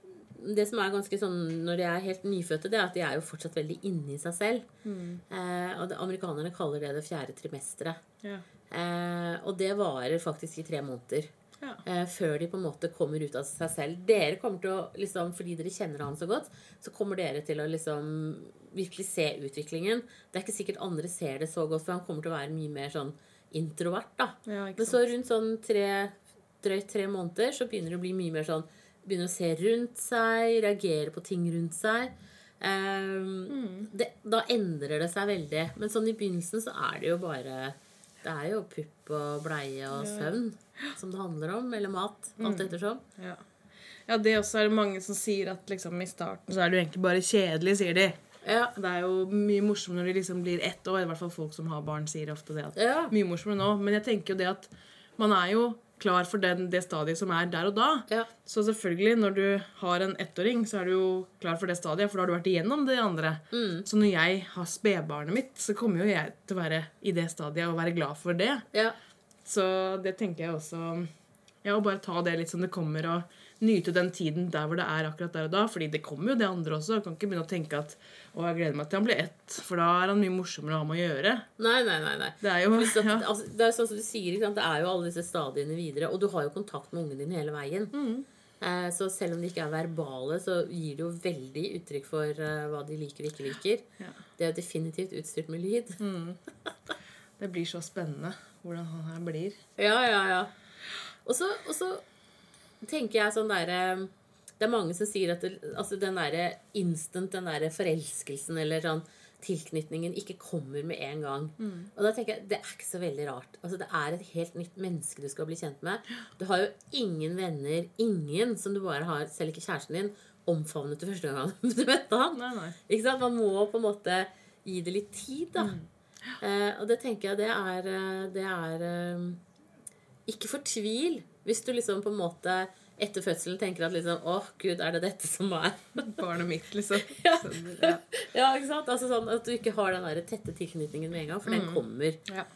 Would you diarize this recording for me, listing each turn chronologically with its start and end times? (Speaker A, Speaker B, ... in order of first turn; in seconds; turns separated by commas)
Speaker A: 0.3-4.7, Speaker B: 4.8-5.2, Speaker A: 5.3-8.0, Speaker A: 8.7-11.3, Speaker A: 11.8-43.0, Speaker B: 24.4-25.1, Speaker B: 33.5-33.9, Speaker B: 39.9-40.3, Speaker B: 42.4-43.4, Speaker B: 44.1-48.2, Speaker A: 48.4-48.7, Speaker B: 48.8-68.6, Speaker A: 52.8-53.1, Speaker A: 63.5-63.9, Speaker B: 69.4-71.1, Speaker B: 71.6-81.5, Speaker A: 81.6-87.9, Speaker B: 82.4-83.3, Speaker B: 87.9-88.3, Speaker A: 88.6-93.8, Speaker A: 94.4-96.0, Speaker B: 96.0-96.4, Speaker B: 97.4-99.6, Speaker A: 99.8-100.5, Speaker A: 101.2-102.0, Speaker A: 102.8-125.8, Speaker B: 111.6-111.9, Speaker B: 122.3-122.8, Speaker B: 125.6-125.9, Speaker A: 126.4-129.4, Speaker A: 130.3-136.2, Speaker B: 136.0-138.0, Speaker A: 137.0-142.2, Speaker B: 141.4-142.5